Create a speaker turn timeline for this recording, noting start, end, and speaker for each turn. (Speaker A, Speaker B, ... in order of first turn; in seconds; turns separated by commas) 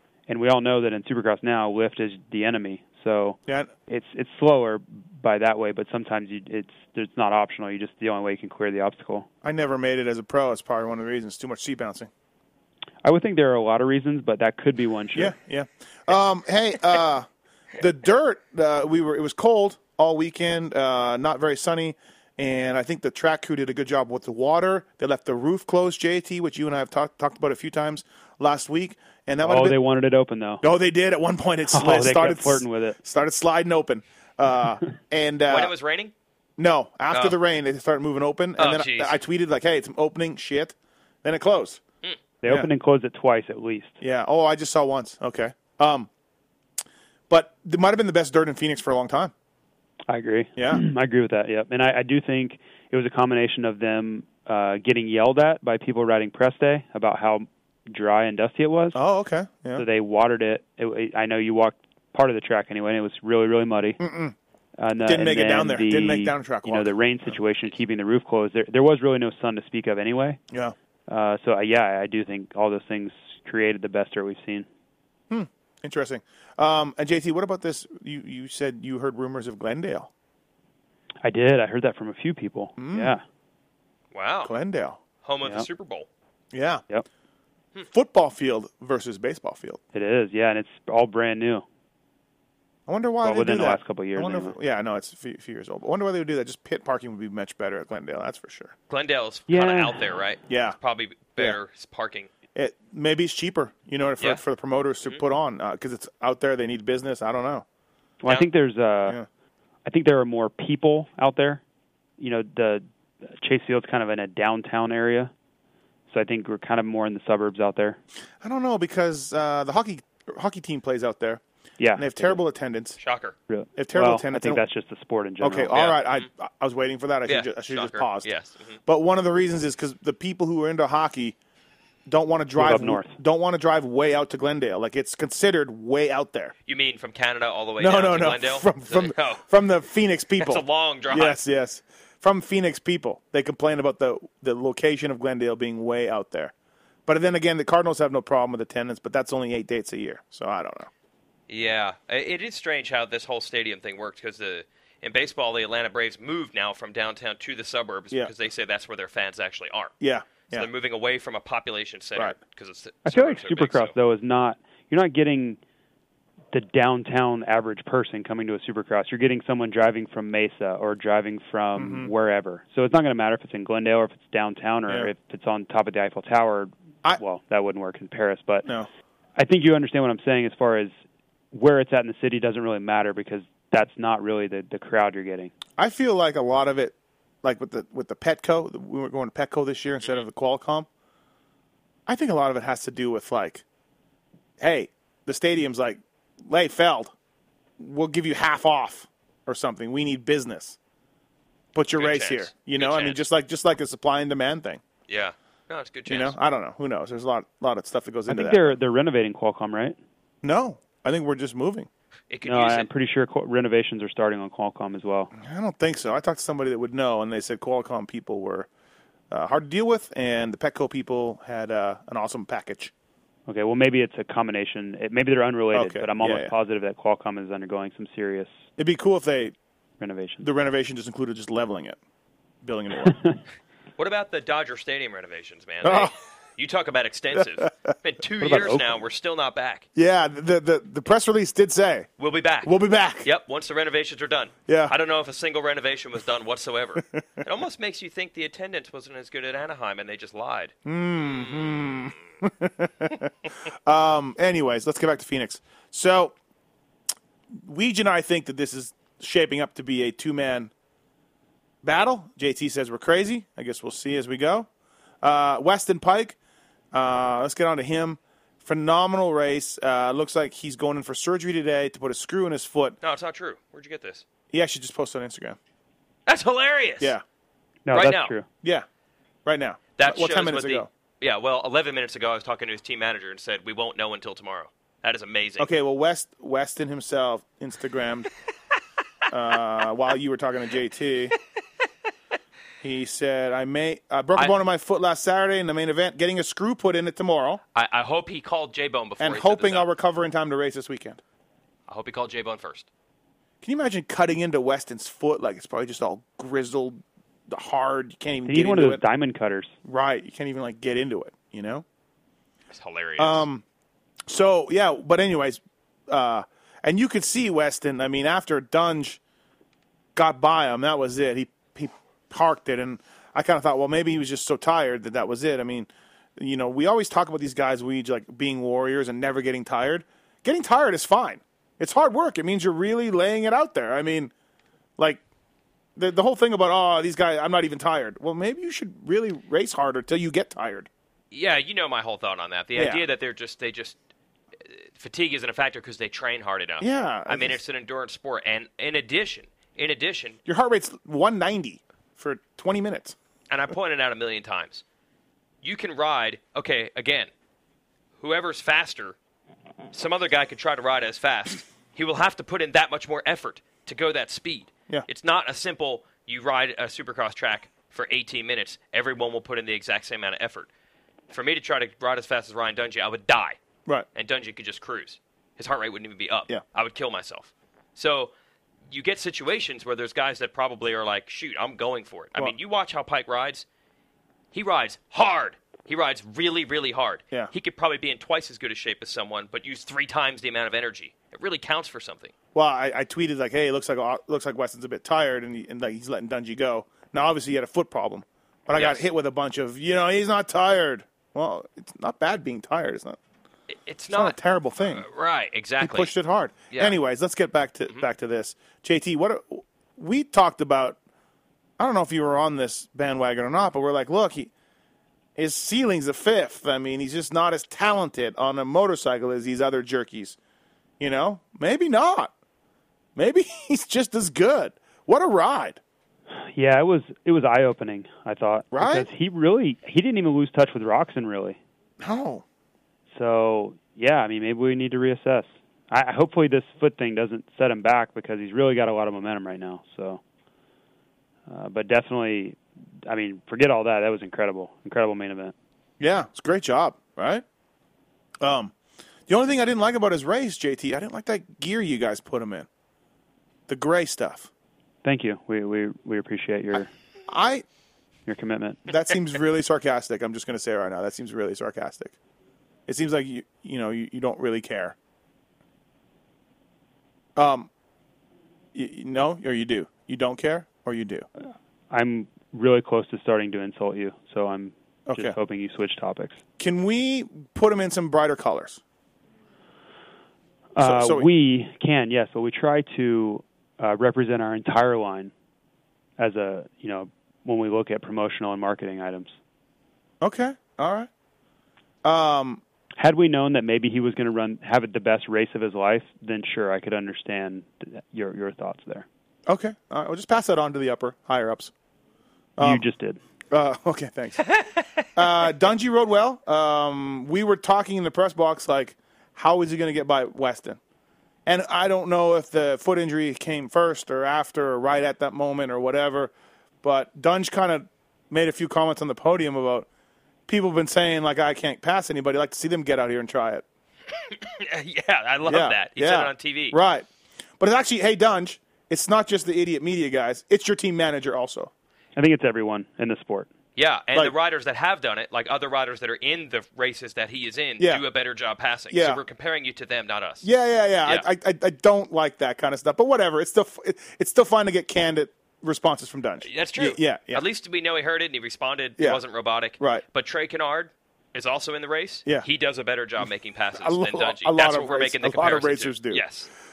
Speaker A: 0.3-9.3, Speaker B: 9.4-12.1, Speaker A: 13.0-15.3, Speaker B: 15.1-17.3, Speaker B: 17.8-29.8, Speaker A: 29.4-30.6, Speaker B: 30.6-35.7, Speaker A: 31.7-33.0, Speaker C: 35.5-36.1, Speaker B: 36.6-41.8, Speaker C: 37.1-37.4, Speaker C: 38.6-39.2, Speaker A: 42.4-44.0, Speaker B: 44.0-46.1, Speaker B: 47.3-49.3, Speaker A: 50.1-59.0, Speaker B: 50.5-50.8, Speaker B: 58.9-59.8, Speaker A: 59.8-64.0, Speaker B: 64.0-64.3, Speaker A: 64.8-70.4, Speaker B: 65.0-67.3, Speaker B: 70.5-70.7, Speaker A: 71.1-74.7, Speaker B: 75.3-80.1, Speaker A: 81.2-83.2, Speaker B: 82.8-83.2, Speaker C: 84.1-84.5, Speaker B: 84.4-85.0, Speaker C: 85.2-86.1, Speaker B: 86.5-86.8, Speaker B: 87.9-89.8, Speaker A: 89.9-91.6, Speaker B: 92.9-98.7, Speaker A: 93.2-94.5, Speaker C: 98.9-102.3, Speaker A: 99.5-100.0, Speaker B: 100.5-100.8, Speaker B: 102.5-107.6, Speaker A: 108.2-109.2, Speaker A: 109.8-111.6, Speaker A: 112.2-115.3, Speaker A: 116.1-118.0, Speaker B: 118.4-121.4, Speaker A: 121.8-122.4, Speaker B: 122.0-123.0, Speaker C: 123.0-123.3, Speaker A: 123.5-125.7, Speaker B: 123.8-124.6, Speaker B: 125.4-128.3, Speaker C: 125.7-126.3, Speaker C: 127.2-128.8, Speaker B: 128.8-131.3, Speaker B: 132.1-136.5, Speaker A: 132.6-133.1, Speaker C: 136.7-139.4, Speaker B: 137.8-146.5, Speaker C: 140.4-141.4, Speaker B: 147.1-150.9, Speaker C: 151.5-159.9, Speaker B: 160.0-160.7, Speaker C: 160.5-163.9, Speaker A: 163.1-165.6, Speaker A: 166.5-178.7, Speaker B: 171.8-172.1, Speaker A: 179.4-180.9, Speaker A: 181.5-185.5, Speaker B: 185.8-190.9, Speaker B: 192.1-193.6, Speaker B: 194.6-197.1, Speaker B: 197.8-200.8, Speaker B: 201.7-204.8, Speaker C: 201.9-203.2, Speaker C: 205.1-206.3, Speaker B: 206.1-208.8, Speaker A: 208.3-210.0, Speaker B: 210.4-211.9, Speaker C: 212.3-212.9, Speaker A: 212.4-215.3, Speaker B: 215.3-218.7, Speaker B: 219.3-222.9, Speaker A: 223.5-228.6, Speaker B: 225.7-226.5, Speaker B: 228.8-229.5, Speaker A: 230.0-230.5, Speaker B: 230.4-232.0, Speaker B: 232.6-233.2, Speaker A: 233.1-233.4, Speaker C: 234.0-239.8, Speaker B: 235.8-236.1, Speaker B: 237.3-237.7, Speaker A: 238.4-238.9, Speaker B: 239.9-242.1, Speaker C: 242.2-250.7, Speaker B: 242.6-243.3, Speaker B: 244.7-244.9, Speaker B: 250.8-253.3, Speaker B: 253.8-256.3, Speaker B: 257.6-260.7, Speaker B: 261.8-264.7, Speaker B: 265.2-266.4, Speaker B: 266.9-272.9, Speaker C: 273.0-274.2, Speaker B: 274.5-275.6, Speaker C: 276.3-277.1, Speaker A: 277.9-278.5, Speaker C: 277.9-278.3, Speaker B: 279.4-280.9, Speaker C: 280.0-285.7, Speaker B: 285.6-288.3, Speaker B: 289.3-291.3, Speaker B: 292.8-297.6, Speaker C: 297.7-299.9, Speaker B: 299.2-301.2, Speaker C: 301.9-302.9, Speaker B: 303.6-309.0, Speaker A: 308.5-309.7, Speaker B: 309.8-311.8, Speaker C: 312.7-313.4, Speaker B: 313.2-313.6, Speaker B: 314.3-319.2, Speaker B: 320.1-334.3, Speaker B: 335.9-340.9, Speaker C: 341.3-344.0, Speaker B: 342.7-343.0, Speaker C: 344.6-350.4, Speaker B: 346.8-347.6, Speaker B: 350.4-353.1, Speaker C: 353.5-354.8, Speaker C: 355.6-357.3, Speaker C: 358.2-359.1, Speaker C: 359.9-370.7, Speaker C: 371.3-373.6, Speaker C: 374.1-378.3, Speaker C: 378.9-383.6, Speaker C: 384.5-392.3, Speaker B: 392.5-403.2, Speaker C: 398.7-399.1, Speaker C: 403.7-406.1, Speaker B: 404.1-405.0, Speaker B: 405.8-411.0, Speaker C: 406.7-406.9, Speaker B: 411.8-414.5, Speaker B: 415.4-420.4, Speaker B: 421.0-422.3, Speaker B: 423.1-425.8, Speaker A: 426.4-431.6, Speaker B: 428.7-429.1, Speaker B: 432.0-432.4, Speaker A: 433.1-440.2, Speaker A: 441.5-445.5, Speaker B: 446.0-447.4, Speaker B: 448.4-448.7, Speaker B: 449.3-452.7, Speaker B: 453.7-454.5, Speaker A: 455.0-456.9, Speaker B: 457.3-457.6, Speaker A: 458.3-458.8, Speaker B: 458.9-462.1, Speaker B: 462.9-464.9, Speaker B: 467.4-467.7, Speaker B: 468.7-471.2, Speaker A: 471.4-476.4, Speaker B: 475.1-475.4, Speaker B: 476.6-478.8, Speaker A: 480.7-485.3, Speaker B: 480.8-481.3, Speaker A: 486.2-489.3, Speaker B: 490.2-491.1, Speaker B: 492.0-492.6, Speaker A: 493.0-499.1, Speaker B: 499.5-501.7, Speaker B: 502.6-502.8, Speaker A: 502.6-503.2, Speaker B: 503.5-504.5, Speaker B: 505.1-510.8, Speaker B: 511.4-516.3, Speaker B: 516.8-519.9, Speaker B: 520.5-523.6, Speaker C: 524.4-526.8, Speaker B: 525.5-527.1, Speaker B: 527.6-531.7, Speaker A: 532.1-533.5, Speaker C: 533.8-540.5, Speaker B: 537.8-538.0, Speaker B: 538.9-539.2, Speaker B: 540.4-547.4, Speaker C: 546.4-556.5, Speaker B: 549.8-550.0, Speaker B: 553.7-556.2